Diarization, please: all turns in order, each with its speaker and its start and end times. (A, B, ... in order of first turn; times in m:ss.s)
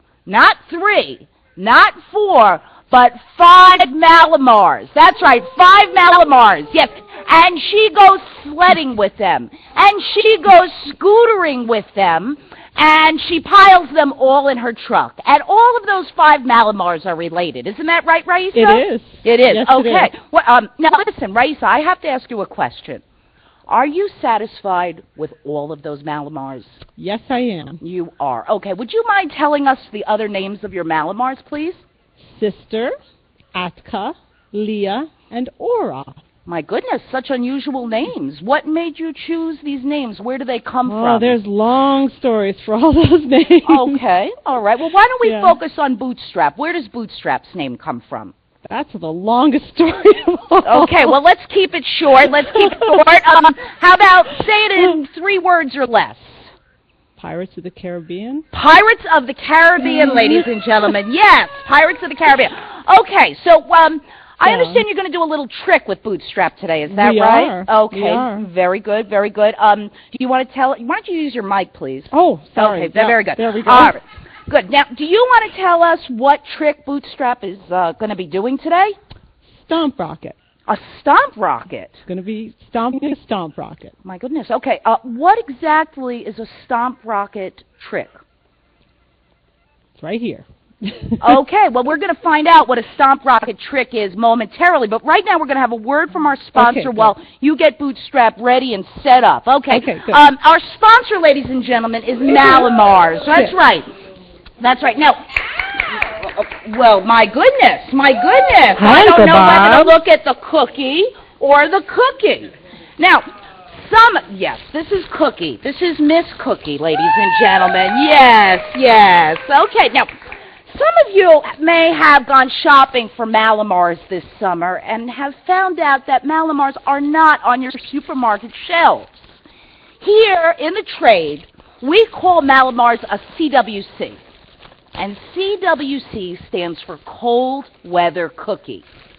0:00.2-0:23.0 A
0:18.5-0:20.1 B
0:23.7-0:26.8 A
0:27.0-0:27.8 B
0:27.8-0:31.8 A
0:32.2-0:32.9 B
0:33.5-0:36.2 B
0:36.4-0:41.4 A
0:40.8-0:44.0 B
0:43.6-0:48.3 A
0:45.2-0:45.6 B
0:48.6-0:51.1 B
0:50.6-0:56.5 A
0:52.4-0:53.0 B
0:57.2-0:58.4 B
0:58.5-1:18.9 A
0:59.8-1:00.4 B
1:04.4-1:04.8 B
1:06.9-1:08.5 B
1:12.1-1:14.0 B
1:19.6-1:20.4 B
1:20.7-1:22.0 A
1:22.1-1:23.9 B
1:24.0-1:28.2 A
1:30.0-1:31.4 B
1:31.2-1:43.9 A
1:36.5-1:37.1 B
1:39.7-1:40.2 B
1:44.6-1:45.2 A
1:46.1-2:00.1 A
1:48.8-1:50.0 B
2:00.7-2:09.4 A
2:10.0-2:14.2 A
2:15.0-2:18.8 A